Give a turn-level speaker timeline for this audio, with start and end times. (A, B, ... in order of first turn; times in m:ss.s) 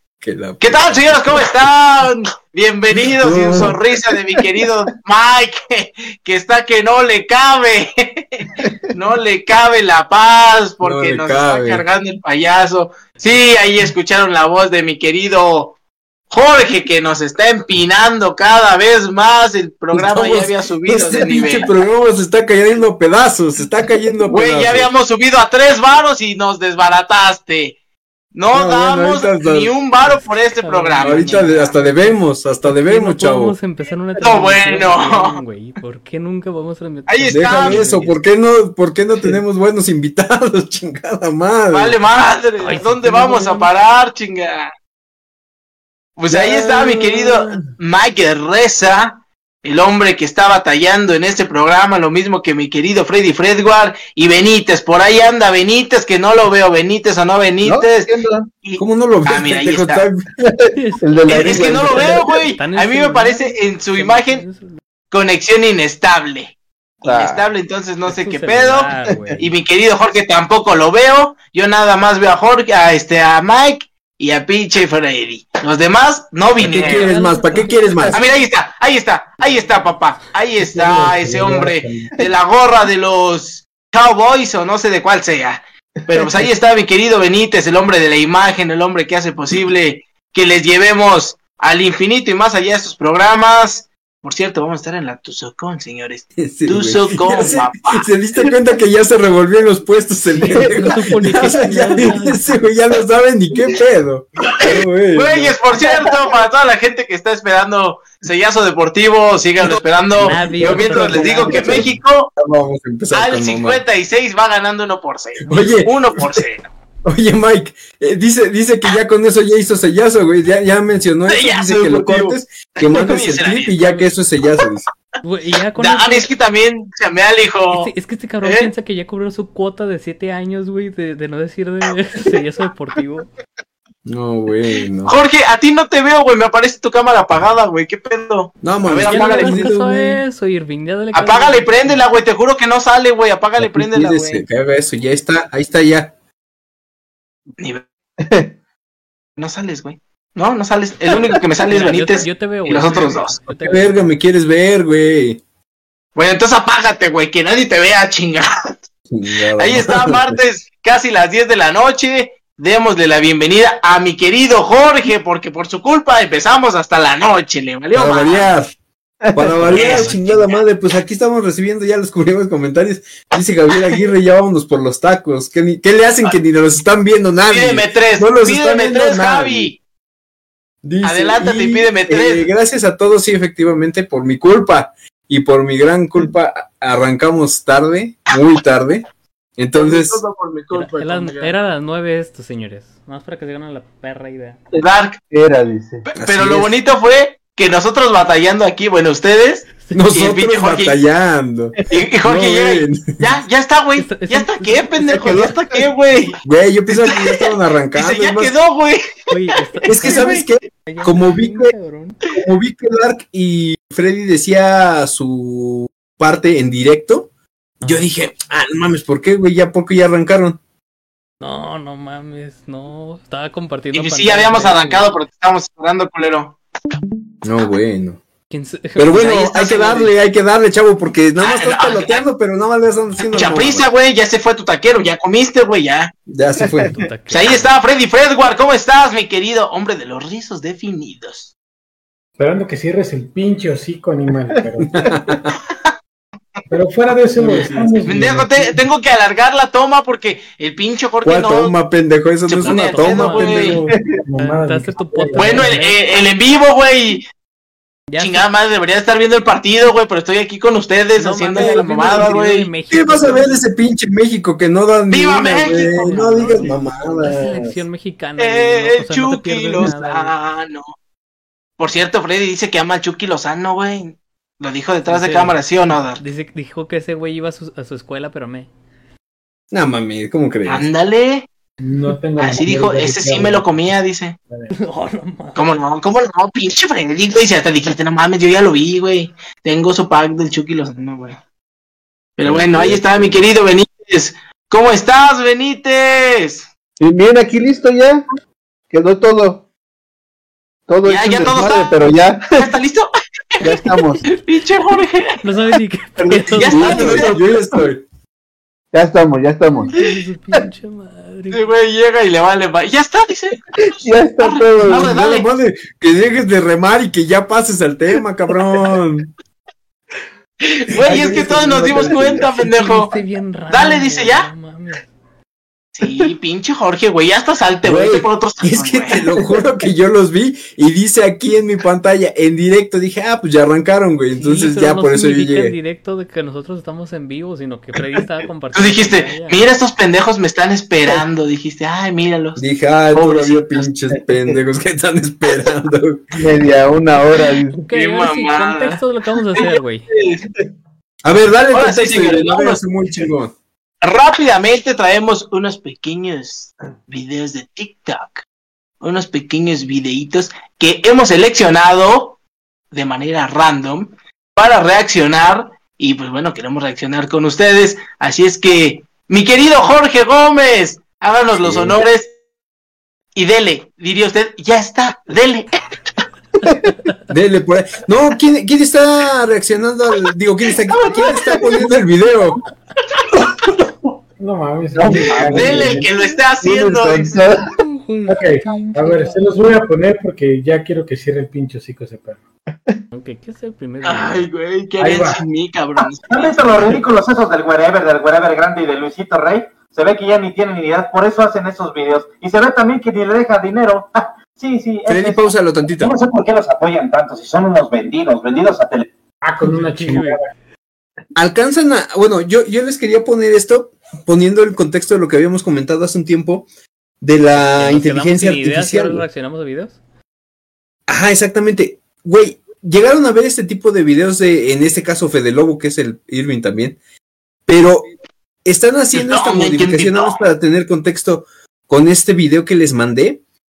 0:00.2-0:01.4 A
0:00.6-0:15.8 B
0:03.0-0:03.8 A
0:10.8-0:11.8 A
0:16.3-0:21.7 B
0:19.9-0:24.9 A
0:24.3-0:27.8 B
0:28.3-0:31.7 B
0:28.5-0:29.8 A
0:30.0-0:32.1 C
0:31.0-0:33.6 A
0:32.7-0:38.2 C
0:34.2-0:35.4 B
0:37.1-0:37.9 B
0:37.3-0:42.0 A
0:41.7-0:44.7 B
0:42.6-0:43.7 C
0:46.2-0:58.1 B
0:46.4-0:47.4 A
0:57.6-0:58.5 D
0:58.6-1:00.1 B
0:58.8-1:00.3 A
1:00.4-1:02.5 D
1:00.7-1:04.8 C
1:01.3-1:04.5 B
1:05.1-1:17.1 B
1:07.0-1:07.4 D
1:08.1-1:09.4 C
1:16.6-1:18.2 A
1:16.8-1:17.8 C
1:18.1-1:38.1 B
1:20.6-1:22.2 E
1:36.4-1:45.6 A
1:40.4-1:42.7 C
1:45.1-1:52.3 B
1:50.2-1:51.9 C
1:50.6-1:53.8 A
1:51.4-1:51.8 D
1:53.1-1:56.7 B
1:55.5-1:56.4 A
1:57.0-2:04.9 A
2:01.3-2:03.8 B
2:05.2-2:06.3 C
2:05.8-2:07.9 B
2:07.7-2:13.3 C
2:08.4-2:08.7 B
2:14.1-2:15.2 A
2:15.0-2:19.7 B
2:18.6-2:20.2 A
2:19.1-2:22.0 C
2:21.1-2:24.4 B
2:23.6-2:26.1 A
2:27.6-2:27.8 B
2:28.2-2:28.5 D
2:29.4-2:33.4 B
2:31.6-2:34.1 C
2:33.6-2:35.4 A
2:36.2-2:38.8 B
2:39.1-2:40.4 A
2:39.6-2:48.6 B
2:47.9-2:48.7 A
2:49.3-2:49.5 D
2:49.3-2:59.7 A
2:49.6-2:50.2 C
2:49.7-2:50.4 B
2:57.5-2:59.8 B
3:00.8-3:09.0 A
3:01.0-3:02.5 B
3:09.6-3:10.2 A
3:09.7-3:11.6 B
3:10.7-3:14.6 C
3:14.8-3:15.2 B
3:15.3-3:16.1 D
3:16.1-3:21.0 B
3:16.2-3:16.7 A
3:19.9-3:23.4 A
3:21.9-3:26.4 B
3:24.0-3:25.5 C
3:26.4-3:28.6 A
3:26.9-3:29.0 B
3:29.3-3:32.2 C
3:29.8-3:30.5 B
3:29.8-3:31.7 A
3:32.3-3:37.3 A
3:37.8-3:40.6 A
3:41.4-3:45.1 C
3:43.9-3:46.6 B
3:47.4-3:48.2 A
3:48.5-3:49.7 C
3:49.0-3:53.9 A
3:49.3-3:50.1 B
3:51.4-3:52.2 B
3:53.2-3:56.1 B
3:56.3-3:57.0 A
3:56.9-3:57.7 C
3:57.3-4:01.5 B
4:02.4-4:05.1 E
4:04.9-4:05.6 A
4:06.7-4:08.8 E
4:07.3-4:08.2 A
4:07.4-4:07.7 C
4:08.0-4:11.8 B
4:11.2-4:13.7 A
4:12.5-4:13.8 B
4:12.9-4:13.8 C
4:13.4-4:15.8 E
4:14.4-4:16.0 C
4:15.4-4:17.2 B
4:18.1-4:18.4 C
4:18.2-4:22.7 B
4:21.2-4:23.6 C
4:22.9-4:27.8 A
4:25.1-4:26.7 B
4:26.0-4:30.3 C
4:28.4-4:30.9 B
4:31.8-4:36.2 B
4:35.0-4:38.7 C
4:39.7-4:40.9 A
4:40.7-4:41.5 B
4:41.8-4:43.9 E
4:42.4-4:44.4 B
4:44.7-4:45.6 C
4:45.6-4:51.4 B
4:52.4-4:56.7 B
4:52.4-4:53.5 A
4:57.0-4:58.2 D
4:58.9-4:59.6 D
5:00.9-5:02.7 D
5:01.0-5:02.0 B
5:02.6-5:05.4 B
5:03.6-5:04.2 D
5:05.4-5:07.2 C
5:06.4-5:07.5 D
5:06.5-5:08.0 A
5:06.5-5:07.4 B
5:08.9-5:10.0 D
5:09.8-5:11.7 C
5:11.5-5:15.5 B
5:13.8-5:15.1 D
5:14.9-5:19.3 A
5:20.7-5:23.1 B
5:21.0-5:22.2 A
5:21.0-5:22.5 D
5:22.5-5:25.1 C
5:23.7-5:24.5 B
5:26.0-5:29.2 B
5:27.8-5:35.8 A
5:34.3-5:39.7 C
5:38.7-5:43.9 B
5:42.6-5:46.2 A
5:46.4-5:47.8 D
5:47.8-5:50.1 C
5:47.9-5:49.0 B
5:49.6-5:50.4 B
5:51.2-5:53.5 A
5:51.7-5:52.8 B
5:54.0-5:58.4 B
5:59.0-6:02.4 B
6:02.9-6:12.4 B
6:11.6-6:12.0 A
6:13.4-6:15.7 B
6:16.6-6:17.1 C
6:17.3-6:22.6 A
6:21.0-6:21.4 B
6:24.4-6:26.1 E
6:25.0-6:26.1 D
6:25.3-6:27.4 B
6:26.6-6:27.7 D
6:27.8-6:29.7 C
6:28.3-6:32.4 E
6:33.1-6:34.5 C
6:34.0-6:36.5 B
6:35.0-6:35.4 E
6:36.3-6:49.1 F
6:45.1-6:46.2 A
6:49.4-6:50.5 E
6:49.6-6:50.4 C
6:51.4-6:56.7 A
6:57.2-6:59.3 A
6:57.6-7:00.0 C
7:01.1-7:07.0 A
7:07.7-7:08.1 A
7:08.6-7:13.4 A
7:09.1-7:10.4 B